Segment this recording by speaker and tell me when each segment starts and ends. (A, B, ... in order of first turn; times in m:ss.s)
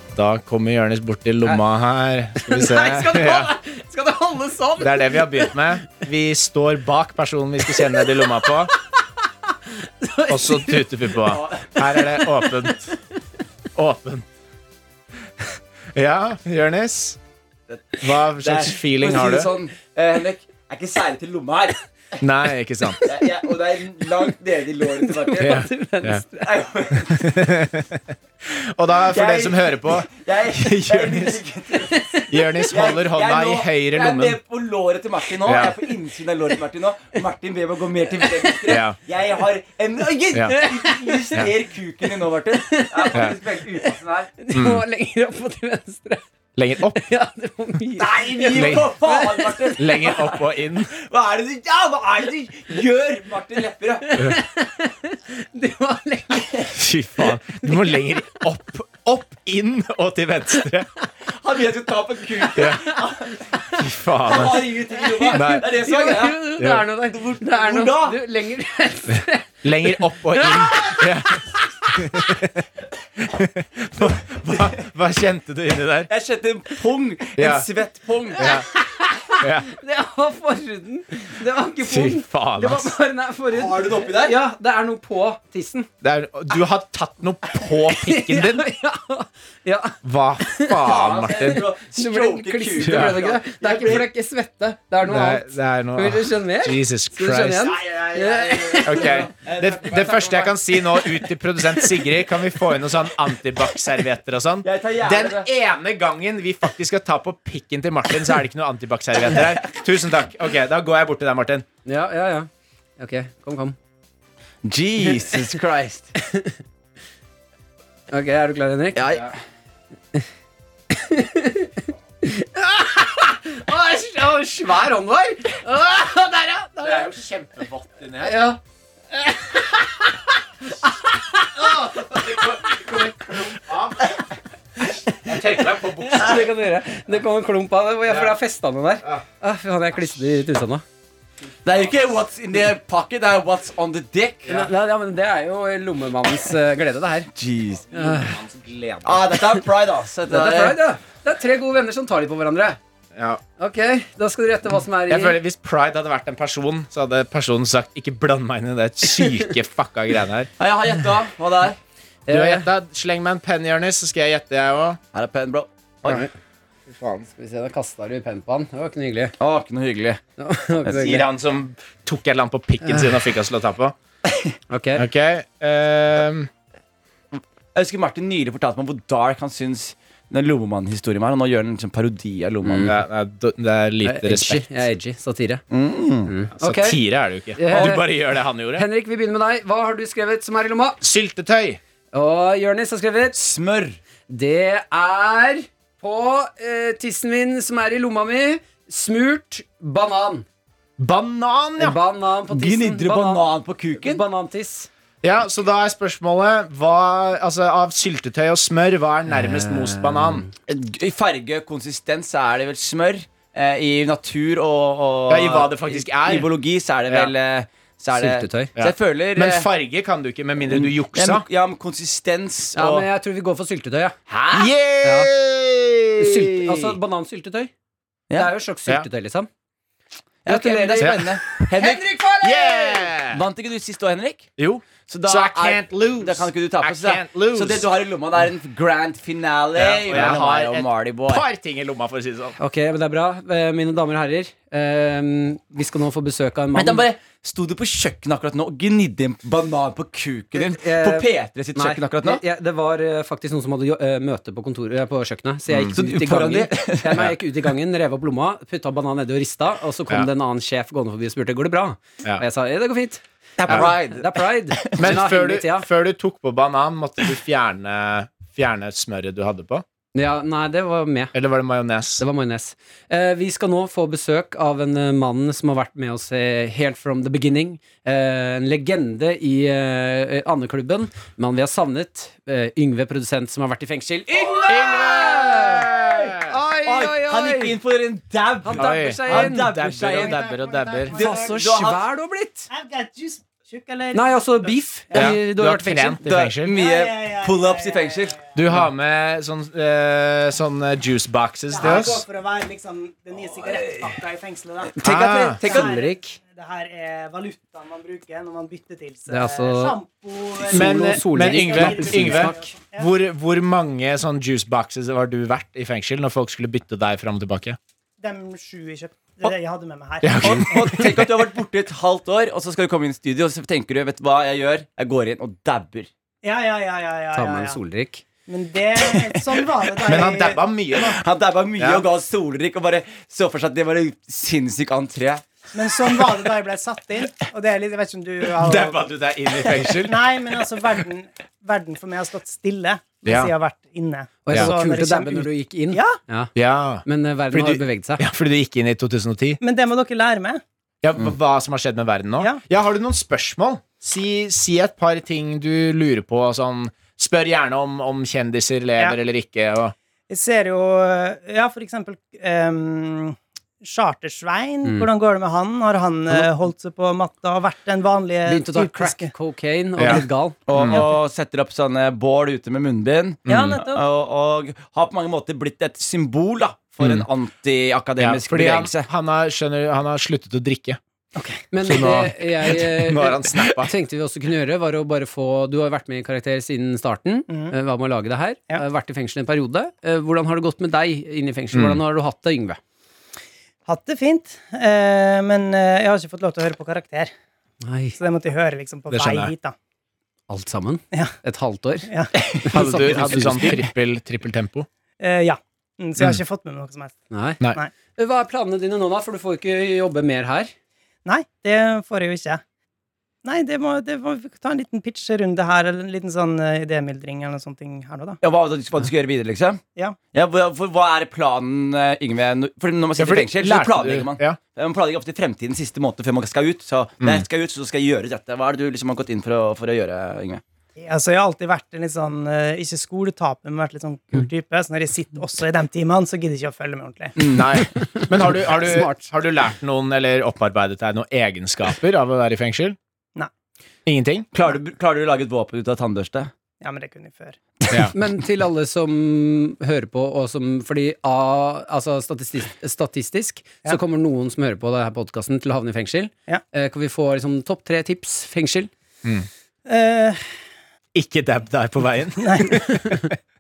0:00.1-0:03.5 A
0:02.4-0:05.6 B
0:04.8-0:08.7 A
0:09.5-0:11.0 B
0:10.3-0:12.9 A
0:11.2-0:11.7 C
0:11.9-0:13.0 B
0:13.8-0:14.3 A
0:15.4-0:17.2 A
0:17.7-0:21.8 C
0:18.0-0:19.5 A
0:22.2-0:23.0 A
0:23.0-0:25.7 C
0:25.0-0:26.5 B
0:25.4-0:26.2 A
0:26.4-0:27.4 C
0:27.1-0:31.4 A
0:29.1-0:32.1 C
0:31.8-0:32.7 B
0:32.3-0:34.4 A
0:32.7-0:44.4 C
0:35.4-0:35.8 A
0:38.2-0:38.8 B
0:38.7-0:39.0 A
0:40.4-0:41.5 B
0:42.5-0:46.2 B
0:44.5-0:44.8 A
0:46.6-0:47.0 A
0:46.9-0:49.8 B
0:48.0-0:54.2 C
0:48.5-0:48.9 A
0:49.8-0:51.0 A
0:54.0-0:56.7 B
0:56.7-1:00.9 A
0:57.5-0:58.0 B
1:01.3-1:03.5 C
1:02.6-1:02.9 A
1:02.6-1:03.8 B
1:03.8-1:04.7 A
1:04.3-1:06.4 C
1:04.9-1:12.3 B
1:05.3-1:05.7 A
1:06.6-1:06.8 A
1:07.2-1:08.2 C
1:09.2-1:12.6 A
1:13.2-1:16.1 A
1:14.5-1:14.8 C
1:16.1-1:18.5 C
1:17.4-1:17.7 A
1:18.4-1:18.7 A
1:18.4-1:25.9 B
1:19.4-1:19.7 A
1:21.9-1:22.9 A
1:23.5-1:24.4 C
1:26.0-1:28.7 A
1:27.8-1:39.3 B
1:30.0-1:31.6 A
1:30.8-1:34.1 C
1:32.8-1:33.2 A
1:35.0-1:37.7 A
1:37.7-1:40.6 C
1:38.8-1:51.7 A
1:41.8-1:42.0 B
1:44.6-1:45.5 C
1:51.9-1:53.8 B
1:54.6-1:56.1 C
1:56.2-1:56.6 B
1:58.1-1:59.1 B
1:59.0-1:59.3 C
2:00.9-2:07.1 B
2:06.8-2:08.6 A
2:08.2-2:08.6 B
2:09.2-2:10.0 B
2:11.4-2:12.7 B
2:11.6-2:14.2 A
2:14.9-2:20.8 B
2:15.1-2:16.4 A
2:21.6-2:24.7 C
2:24.5-2:27.3 B
2:27.4-2:27.9 C
2:27.9-2:29.3 A
2:27.9-2:28.4 B
2:29.0-2:30.8 C
2:30.3-2:32.8 B
2:33.2-2:33.4 A
2:33.6-2:35.4 B
2:35.1-2:40.5 A
2:40.6-2:41.8 C
2:42.3-2:42.7 B
2:42.3-2:45.0 A
2:45.1-2:46.2 C
2:46.0-2:46.3 B
2:46.9-2:47.3 A
2:47.3-2:49.3 B
2:49.4-2:50.2 C
2:50.4-2:51.3 B
2:50.8-2:51.2 C
2:50.9-2:54.0 A
2:52.8-2:53.1 B
2:54.7-2:55.1 B
2:55.0-2:56.5 A
2:57.7-3:03.0 C
3:02.6-3:03.0 B
3:02.8-3:04.7 A
3:04.0-3:05.6 B
3:05.7-3:06.3 C
3:06.2-3:07.0 B
3:06.6-3:08.9 A
3:07.6-3:08.1 B
3:07.7-3:08.0 C
3:08.7-3:11.0 B
3:11.0-3:11.8 A
3:12.1-3:13.4 B
3:13.3-3:14.0 C
3:14.3-3:20.5 B
3:21.0-3:22.0 A
3:21.8-3:24.9 B
3:22.5-3:24.2 C
3:25.2-3:30.5 A
3:29.3-3:30.5 B
3:30.7-3:39.7 C
3:35.3-3:36.5 A
3:38.1-3:38.7 B
3:38.8-3:41.4 A
3:40.7-3:43.1 C
3:42.8-3:44.2 B
3:44.3-3:44.6 C
3:44.5-3:46.9 A
3:45.0-3:45.3 B
3:46.2-3:47.7 B
3:48.3-3:49.5 B
3:50.4-3:52.0 C
3:50.5-3:53.2 B
3:51.0-3:51.3 A
3:52.4-3:53.4 A
3:53.3-3:54.5 C
3:54.6-3:57.9 A
3:55.1-4:01.4 C
3:59.8-4:02.6 A
4:02.6-4:07.0 B
4:06.8-4:12.4 C
4:10.6-4:25.9 B
4:15.7-4:16.0 A
4:16.0-4:17.3 C
4:23.6-4:25.1 C
4:25.0-4:29.8 A
4:30.2-4:31.3 B
4:31.3-4:32.2 A
4:32.2-4:47.8 B
4:44.4-4:46.2 C
4:44.7-4:46.6 A
4:46.8-4:50.4 C
4:48.6-4:50.1 B
4:48.8-4:51.1 A
4:50.1-4:51.5 D
4:51.1-4:52.7 B
4:51.1-4:52.0 C
4:52.7-4:55.4 D
4:54.1-4:56.5 B
4:55.1-4:56.7 A
4:56.2-4:58.4 C
4:56.7-4:58.5 D
4:58.6-5:02.2 A
5:01.7-5:05.0 D
5:04.9-5:05.9 C
5:05.0-5:05.6 A
5:05.6-5:13.1 D
5:05.6-5:06.4 B
5:09.3-5:10.0 B
5:10.7-5:12.8 B
5:10.7-5:17.8 A
5:18.2-5:21.0 D
5:20.2-5:21.1 A
5:20.4-5:26.1 C
5:26.4-5:27.8 D
5:27.3-5:28.2 B
5:28.5-5:30.6 D
5:30.0-5:31.2 A
5:31.0-5:35.4 C
5:31.8-5:32.0 A
5:35.7-5:39.0 D
5:38.6-5:40.3 A
5:40.0-5:46.2 D
5:43.3-5:43.5 A
5:44.4-5:46.5 B
5:46.6-5:49.6 A
5:47.0-5:48.2 B
5:49.6-5:50.6 D
5:51.0-6:00.0 A
6:00.3-6:09.3 D
6:04.8-6:05.1 B
6:08.5-6:10.6 B
6:10.7-6:19.1 C
6:10.8-6:11.0 A
6:13.5-6:13.8 A
6:13.5-6:14.0 D
6:17.0-6:17.3 A
6:18.2-6:21.0 A
6:21.4-6:21.6 D
6:21.7-6:32.8 B
6:21.8-6:23.9 A
6:27.5-6:27.8 D
6:31.7-6:32.0 A
6:33.9-6:37.3 D
6:37.8-6:38.2 B
6:38.2-6:39.8 D
6:39.1-6:39.5 A
6:40.5-6:43.9 B
6:42.5-6:44.9 A
6:45.2-6:47.9 D
6:47.3-6:47.6 B
6:48.2-6:50.7 B
6:51.2-6:52.6 D
6:53.4-6:58.4 D
6:58.4-6:59.8 C
7:00.3-7:10.6 C
7:03.2-7:04.6 A
7:11.0-7:17.3 D
7:17.4-7:17.8 C
7:17.5-7:23.0 A
7:18.2-7:19.2 B
7:24.1-7:24.5 A
7:24.5-7:26.5 C
7:26.8-7:27.6 D
7:28.1-7:38.9 B
7:39.9-7:40.6 D
7:41.2-7:43.2 A
7:42.4-7:42.8 D
7:42.9-7:43.2 B